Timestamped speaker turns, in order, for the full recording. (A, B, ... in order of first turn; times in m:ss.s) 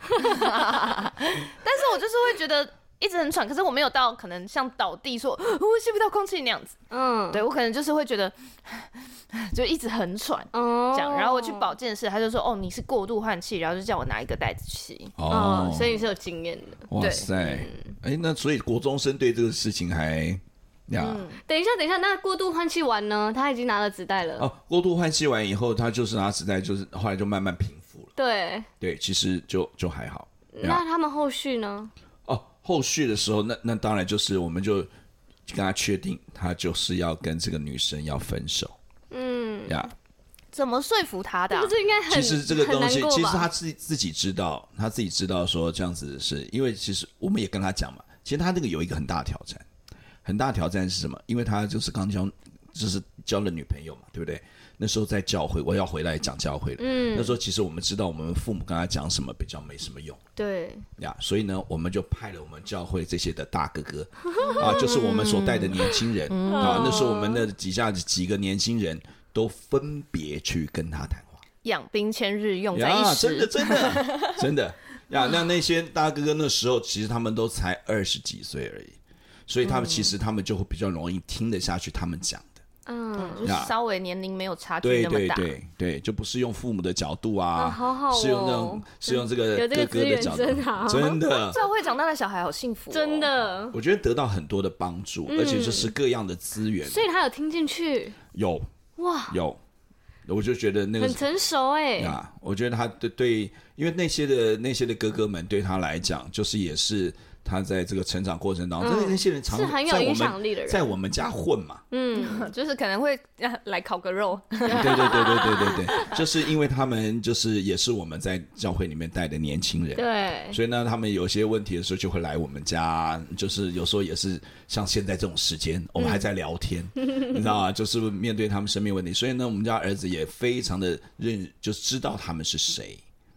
0:00.2-0:06.8 A
0:06.9-0:07.4 B
0:07.3-0:15.1 A
0:10.5-0:11.7 B
0:15.2-0:16.0 C
0:15.3-0:17.9 B
0:16.9-0:21.3 C
0:17.0-0:17.3 A
0:21.0-0:21.4 A
0:21.4-0:24.5 B
0:24.4-0:28.1 C
0:28.2-0:28.7 B
0:28.8-0:30.8 C
0:30.5-0:31.9 B
0:32.2-0:34.9 C
0:35.5-0:38.8 C
0:39.1-0:39.8 B
0:39.6-0:39.9 C
0:40.5-0:41.7 A
0:41.5-0:43.5 B
0:42.1-0:49.6 C
0:50.2-1:00.2 C
0:56.8-0:57.4 B
1:00.4-1:00.8 B
1:01.0-1:11.4 C
1:04.4-1:04.8 B
1:04.4-1:07.1 A
1:06.5-1:07.4 B
1:11.6-1:14.3 A
1:12.7-1:22.6 C
1:19.6-1:20.1 A
1:22.8-1:23.5 B
1:23.2-1:25.5 A
1:23.4-1:23.7 C
1:24.8-1:31.6 C
1:27.6-1:31.2 B
1:31.3-1:33.3 A
1:32.9-1:33.8 B
1:33.7-1:37.1 C
1:35.3-1:35.9 B
1:36.9-1:38.2 B
1:38.3-1:38.7 C
1:39.0-1:39.4 B
1:39.3-1:39.6 C
1:40.2-1:41.2 C
1:41.0-1:42.2 B
1:42.0-1:51.8 C
1:48.8-1:50.9 B
1:51.9-1:52.5 B
1:52.1-1:56.2 A
1:54.6-1:55.9 B
1:54.7-2:13.0 C
1:59.9-2:00.6 B